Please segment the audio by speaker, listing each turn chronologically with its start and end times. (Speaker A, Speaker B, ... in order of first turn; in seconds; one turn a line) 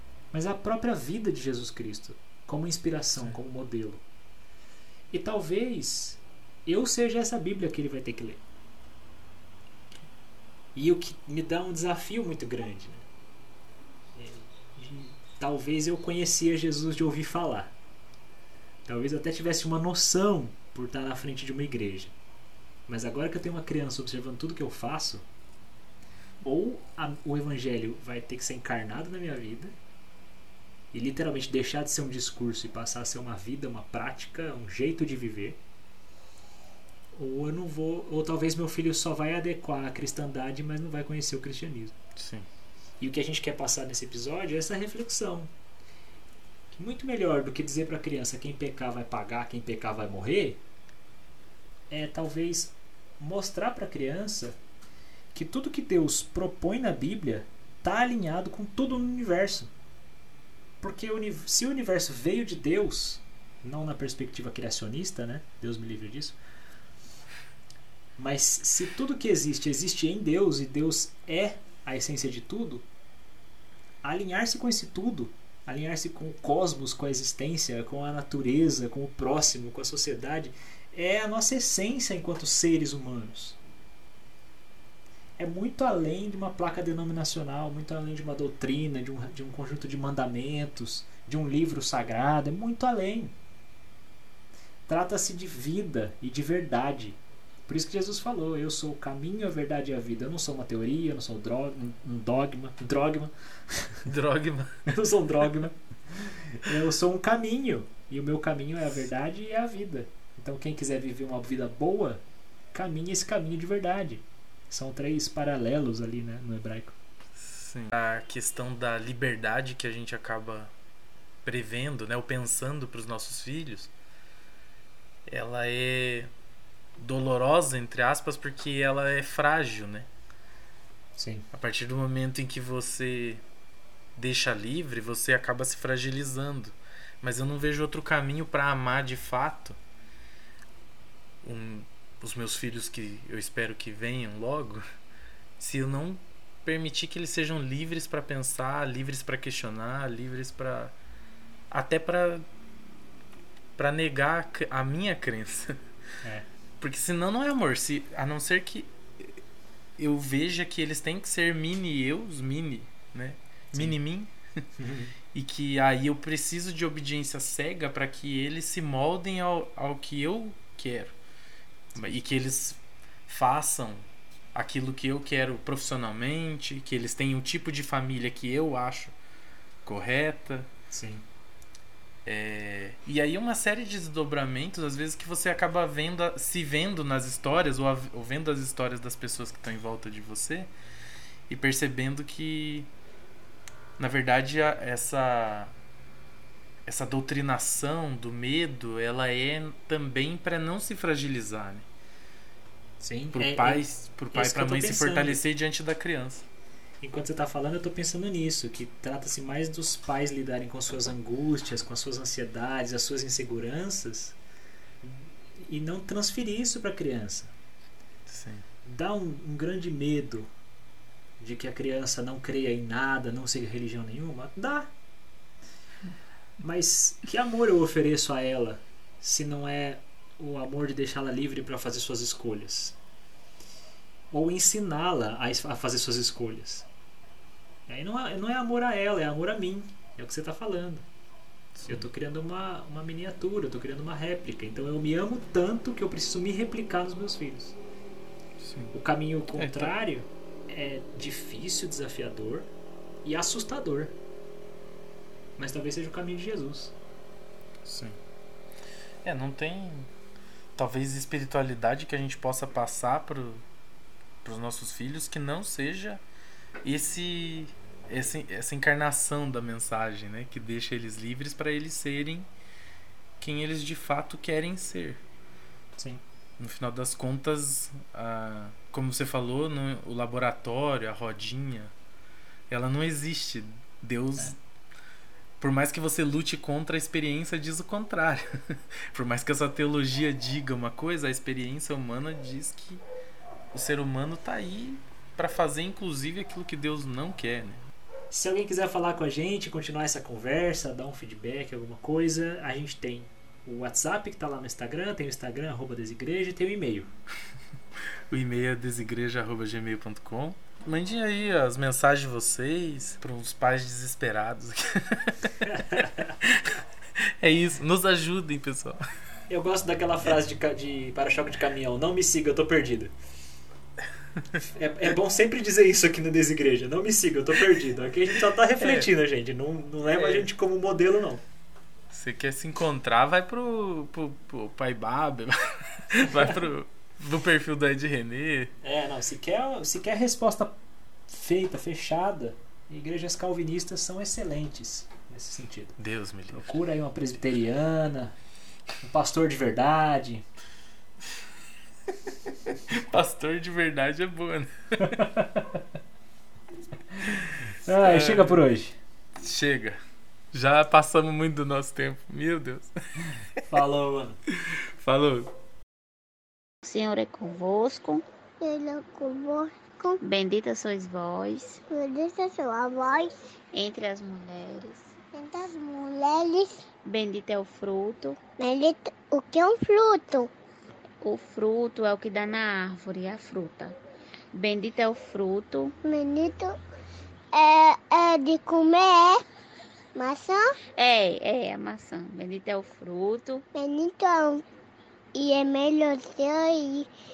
Speaker A: 0.3-4.0
Speaker A: 5.1-8.4
Speaker A: 10.8-13.1
Speaker A: 14.2-17.7
Speaker A: 18.9-22.1
Speaker A: 22.9-25.3
Speaker A: 26.4-29.8
Speaker A: 30.9-35.6
Speaker A: 37.1-41.9
Speaker B: 42.2-42.5
Speaker A: 43.0-45.5
Speaker A: 46.7-50.6
Speaker A: 51.9-54.6
Speaker A: 55.3-59.7
Speaker A: 60.8-66.4
Speaker A: 68.2-72.9
Speaker A: 74.0-83.6
Speaker A: 85.4-93.3
Speaker A: 94.9-104.1
Speaker B: 104.0-105.0
Speaker A: 104.9-112.2
Speaker A: 112.7-117.0
Speaker B: 117.4-120.7
Speaker B: 121.4-123.9
Speaker B: 125.3-126.3
Speaker B: 127.0-130.1
Speaker A: 131.2-131.5
Speaker B: 131.5-133.4
Speaker B: 134.2-139.8
Speaker B: 141.4-144.8
Speaker B: 145.6-150.9
Speaker B: 151.7-152.4
Speaker B: 153.8-155.8
Speaker B: 156.8-159.4
Speaker B: 160.0-164.7
Speaker A: 164.8-165.1
Speaker B: 165.3-171.2
Speaker B: 171.9-179.1
Speaker B: 179.8-180.7
Speaker A: 180.9-181.2
Speaker B: 182.3-190.7
Speaker B: 191.5-192.9
Speaker B: 194.0-195.7
Speaker B: 196.9-201.8
Speaker A: 203.0-205.4
Speaker B: 203.3-206.5
Speaker A: 207.0-214.4
Speaker A: 215.0-217.5
Speaker B: 218.3-218.7
Speaker A: 218.8-220.5
Speaker A: 221.4-224.9
Speaker A: 226.6-233.0
Speaker A: 234.3-236.9
Speaker A: 237.9-241.1
Speaker B: 241.8-242.1
Speaker A: 241.9-247.8
Speaker B: 248.6-248.9
Speaker A: 248.9-252.7
Speaker B: 249.6-249.9
Speaker A: 253.2-254.1
Speaker A: 255.6-256.9
Speaker B: 257.9-258.2
Speaker B: 259.2-260.1
Speaker B: 260.8-263.6
Speaker B: 264.4-266.2
Speaker B: 266.8-272.5
Speaker B: 273.4-275.2
Speaker B: 276.6-281.9
Speaker B: 282.7-284.6
Speaker B: 285.6-293.0
Speaker B: 293.7-297.8
Speaker A: 298.3-307.1
Speaker B: 308.3-315.7
Speaker A: 315.7-316.2
Speaker B: 316.4-319.0
Speaker A: 319.5-323.1
Speaker A: 324.8-331.4
Speaker B: 328.8-329.1
Speaker B: 330.1-330.5
Speaker B: 332.1-338.7
Speaker A: 338.8-340.8
Speaker A: 341.3-346.0
Speaker B: 346.0-346.8
Speaker A: 346.5-348.4
Speaker A: 349.0-350.5
Speaker B: 352.7-355.2
Speaker A: 355.0-355.8
Speaker A: 357.2-359.0
Speaker B: 358.0-358.6
Speaker B: 359.4-360.0
Speaker B: 360.5-363.6
Speaker A: 363.6-364.4
Speaker B: 364.5-365.5
Speaker C: 366.8-368.2
Speaker D: 368.6-370.2
Speaker C: 370.2-371.8
Speaker D: 371.9-373.3
Speaker C: 373.7-375.1
Speaker D: 375.3-376.8
Speaker C: 377.1-378.4
Speaker D: 378.6-380.5
Speaker C: 381.2-384.0
Speaker C: 384.5-385.9
Speaker D: 386.0-386.8
Speaker D: 387.5-389.4
Speaker D: 390.2-390.8
Speaker C: 391.0-393.6
Speaker D: 393.8-394.6
Speaker D: 395.4-397.1